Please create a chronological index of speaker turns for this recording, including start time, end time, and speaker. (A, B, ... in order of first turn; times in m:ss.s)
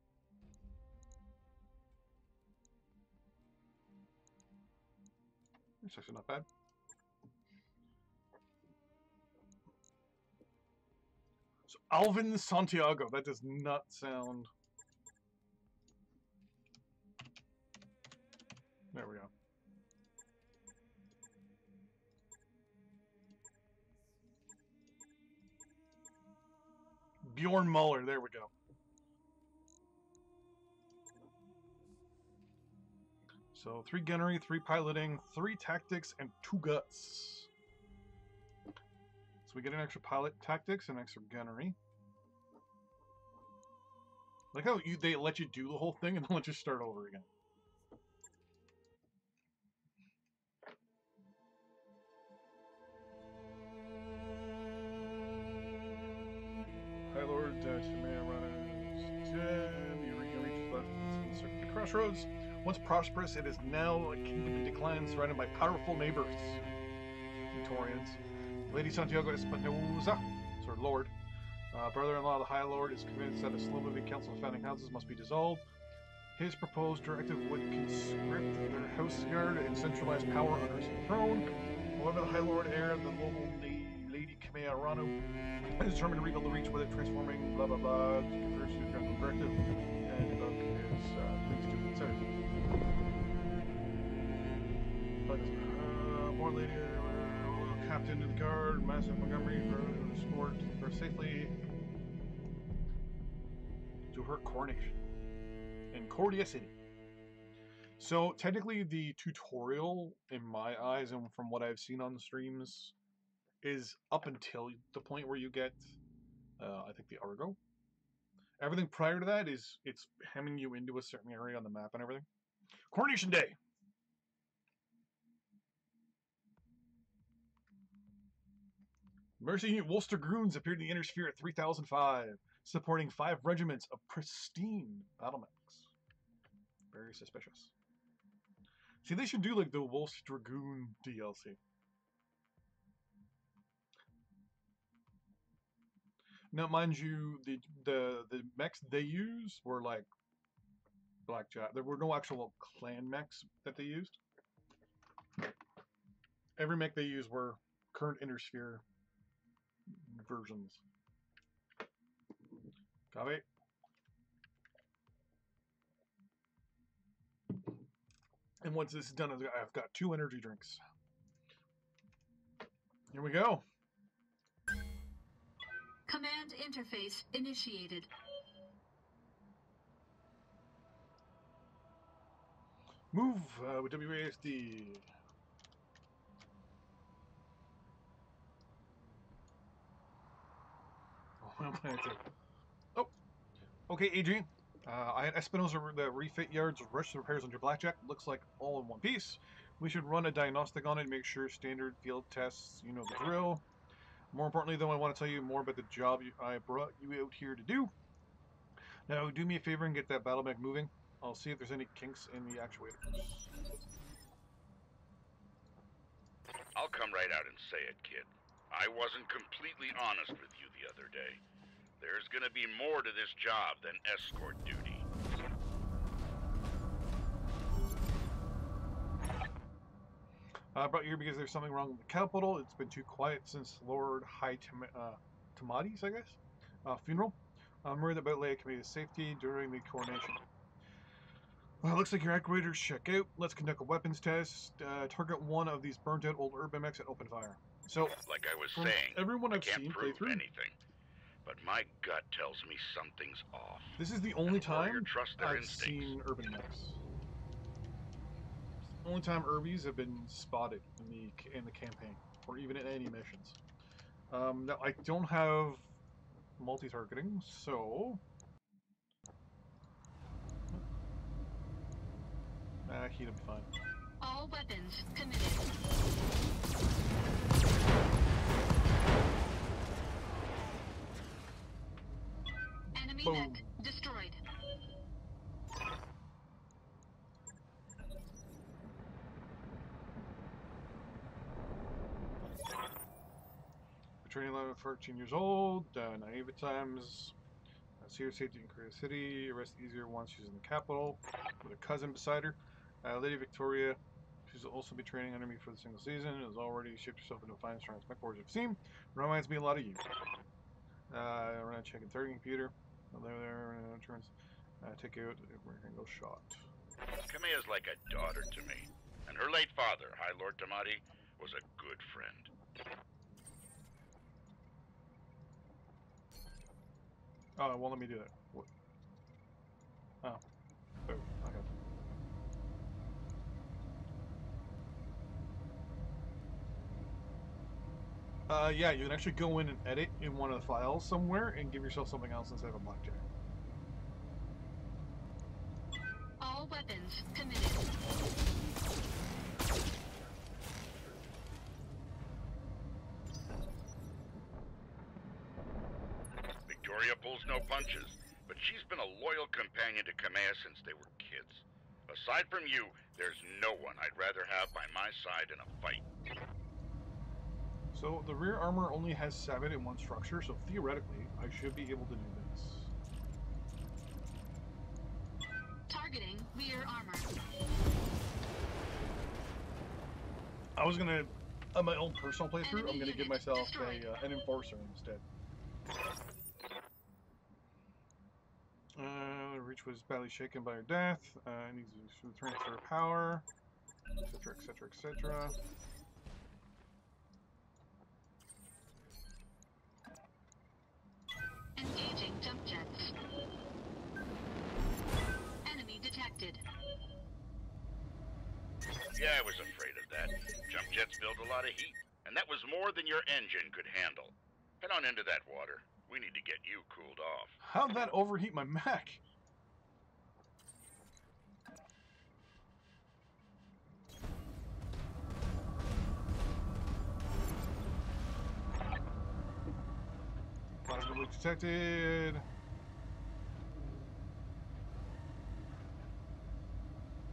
0:05.8-0:06.5 A
0:11.7-0:14.5 A
0:18.9-0:19.3 A
0:27.2-0:28.5 A
0:33.5-0:37.5 A
0:39.5-0:41.8 A
0:44.5-0:47.3 A
0:57.1-1:06.6 A
1:07.5-1:11.1 A
1:11.7-1:15.6 A
1:16.4-1:25.2 A
1:25.8-1:32.3 A
1:35.3-1:41.5 A
1:44.1-1:45.0 A
1:45.9-1:46.8 A
1:48.0-1:52.9 A
1:53.6-1:56.0 A
1:56.6-1:57.6 A
1:58.6-2:02.3 A
2:02.9-2:03.6 A
2:09.4-2:15.9 A
2:16.9-2:17.7 A
2:19.0-2:21.6 A
2:26.5-2:30.1 A
2:31.2-2:34.2 A
2:36.6-2:38.8 A
2:39.9-2:40.8 A
2:43.1-2:43.5 A
2:48.6-2:50.8 A
2:53.1-2:53.6 A
2:56.1-2:58.1 B
3:03.1-3:05.1 A
3:11.4-3:12.2 A
3:13.9-3:23.6 A
3:24.3-3:27.9 A
3:29.1-3:33.5 A
3:36.8-3:41.4 C
3:42.0-3:45.1 C
3:50.7-4:00.4 A
4:01.8-4:08.2 A
4:08.2-4:10.8 C
4:08.7-4:10.4 A
4:11.4-4:16.2 C
4:14.0-4:17.0 A
4:19.0-4:23.6 A
4:24.3-4:25.9 A
4:26.6-4:28.2 A
4:32.8-4:33.7 A
4:34.2-4:35.7 B
4:42.9-4:43.6 A
4:43.0-4:44.4 B
4:54.2-4:57.4 A
4:58.0-5:10.0 A
5:11.1-5:16.6 A
5:17.3-5:22.5 C
5:27.6-5:28.7 A
5:31.0-5:31.7 A
5:38.5-5:43.2 A
5:46.4-5:47.9 B
5:56.7-6:06.0 C
6:07.9-6:12.9 A
6:15.9-6:17.3 B
6:20.8-6:25.2 A
6:22.6-6:24.2 B
6:29.0-6:33.5 A
6:34.2-6:35.6 A
6:41.8-6:43.1 B
6:45.6-6:46.6 B
6:49.2-6:57.6 C
6:57.6-6:59.2 A
7:10.9-7:12.4 A